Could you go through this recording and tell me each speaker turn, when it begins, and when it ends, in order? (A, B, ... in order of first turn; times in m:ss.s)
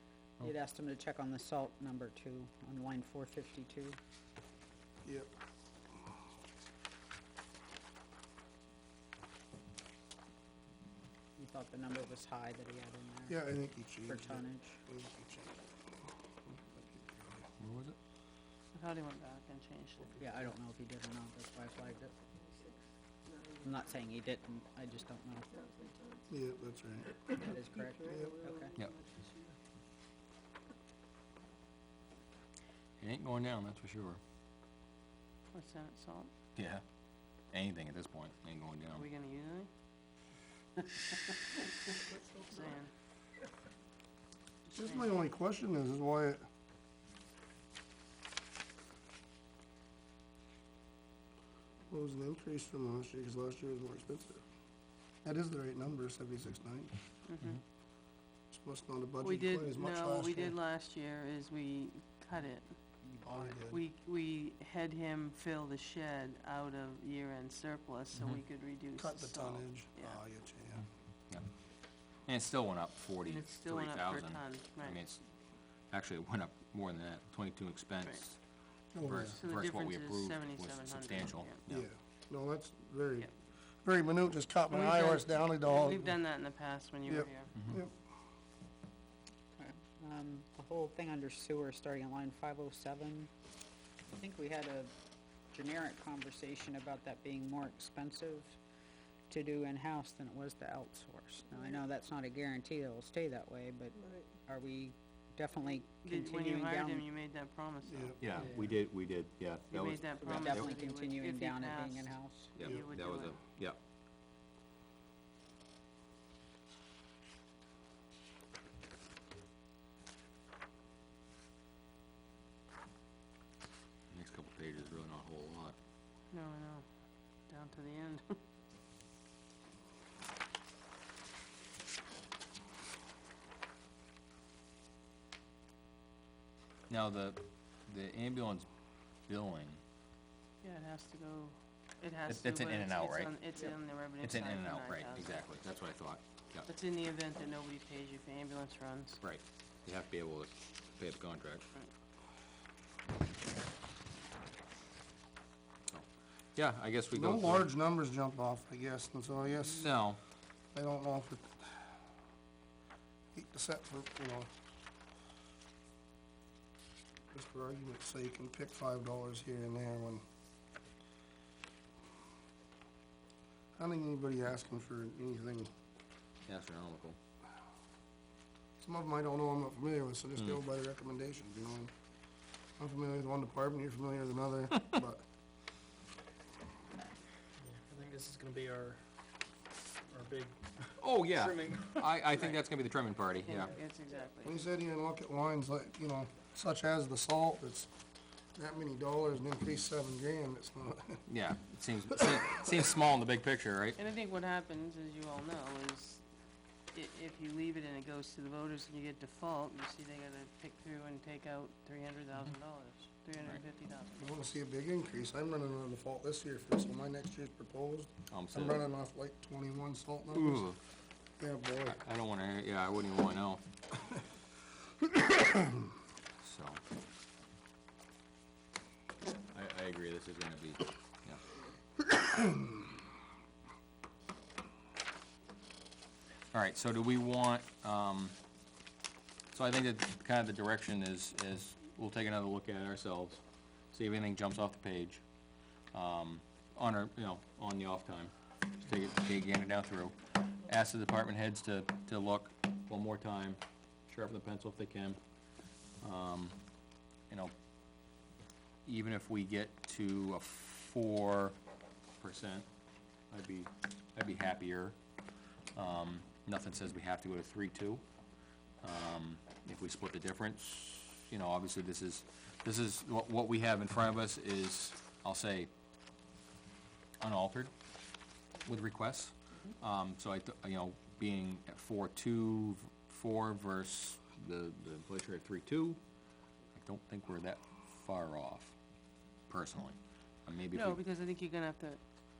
0:00.4-0:04.0 A
0:05.0-0:05.3 B
0:11.4-0:13.4 A
0:13.3-0:15.6 B
0:14.0-0:14.8 A
0:16.4-0:17.5 B
0:17.6-0:18.0 C
0:18.7-0:20.2 D
0:20.2-0:22.1 A
0:20.2-0:20.5 B
0:23.6-0:25.8 A
0:26.3-0:27.4 B
0:27.3-0:28.8 A
0:28.0-0:28.4 B
0:33.0-0:34.2 C
0:35.5-0:36.3 D
0:36.6-0:36.8 C
0:37.5-0:39.0 C
0:38.9-0:39.7 D
0:41.9-0:42.9 D
0:44.7-0:46.4 B
0:51.9-0:54.4 B
0:55.2-0:56.9 B
0:57.3-0:57.6 D
0:58.5-1:00.6 B
0:59.2-1:02.7 D
1:03.0-1:03.6 A
1:03.2-1:03.8 B
1:03.7-1:10.2 D
1:09.0-1:10.8 B
1:12.3-1:15.2 C
1:13.2-1:15.0 D
1:15.9-1:18.4 C
1:18.9-1:19.4 B
1:19.0-1:21.9 C
1:19.3-1:21.6 D
1:21.7-1:23.3 B
1:23.8-1:26.2 B
1:24.7-1:27.5 D
1:27.0-1:27.9 B
1:29.6-1:33.3 A
1:34.1-1:34.9 A
1:35.5-1:38.6 A
1:39.3-1:47.0 A
1:46.0-1:48.4 D
1:47.9-1:48.2 B
1:48.2-1:50.7 C
1:49.7-1:53.4 D
1:50.2-1:52.5 A
1:52.6-1:53.8 C
2:04.1-2:05.8 C
2:06.3-2:06.9 D
2:07.5-2:08.4 D
2:16.9-2:18.7 C
2:19.3-2:19.8 C
2:20.6-2:25.5 D
2:22.3-2:23.3 C
2:24.2-2:26.7 C
2:26.7-2:29.2 D
2:29.2-2:31.7 C
2:35.9-2:37.7 C
2:37.1-2:39.9 B
2:39.6-2:40.2 C
2:40.7-2:41.9 B
2:43.3-2:44.5 B
2:47.3-2:50.2 B
2:53.8-2:55.7 B
2:56.5-2:57.2 C
2:58.8-3:01.9 B
3:02.8-3:05.2 B
3:07.6-3:09.0 E
3:10.1-3:10.7 E
3:11.0-3:13.8 C
3:11.2-3:12.2 E
3:13.4-3:14.6 D
3:14.4-3:17.9 B
3:18.6-3:21.2 B
3:21.3-3:24.0 C
3:24.0-3:26.2 D
3:26.9-3:34.5 D
3:34.2-3:40.7 B
3:38.3-3:38.8 C
3:40.3-3:40.8 C
3:41.4-3:42.0 B
3:41.8-3:43.6 C
3:45.3-3:45.6 B
3:46.4-3:46.8 C
3:49.5-3:51.4 C
3:52.2-3:52.8 B
3:56.5-3:58.4 C
3:59.5-4:05.2 C
4:05.9-4:15.2 C
4:16.0-4:16.6 C
4:18.8-4:21.6 C
4:22.2-4:22.7 C
4:23.3-4:25.0 C
4:25.7-4:28.0 C
4:28.8-4:35.7 C
4:37.2-4:37.7 C
4:38.6-4:46.0 C
4:46.7-4:48.8 C
4:49.5-4:51.0 C
4:50.7-4:52.0 D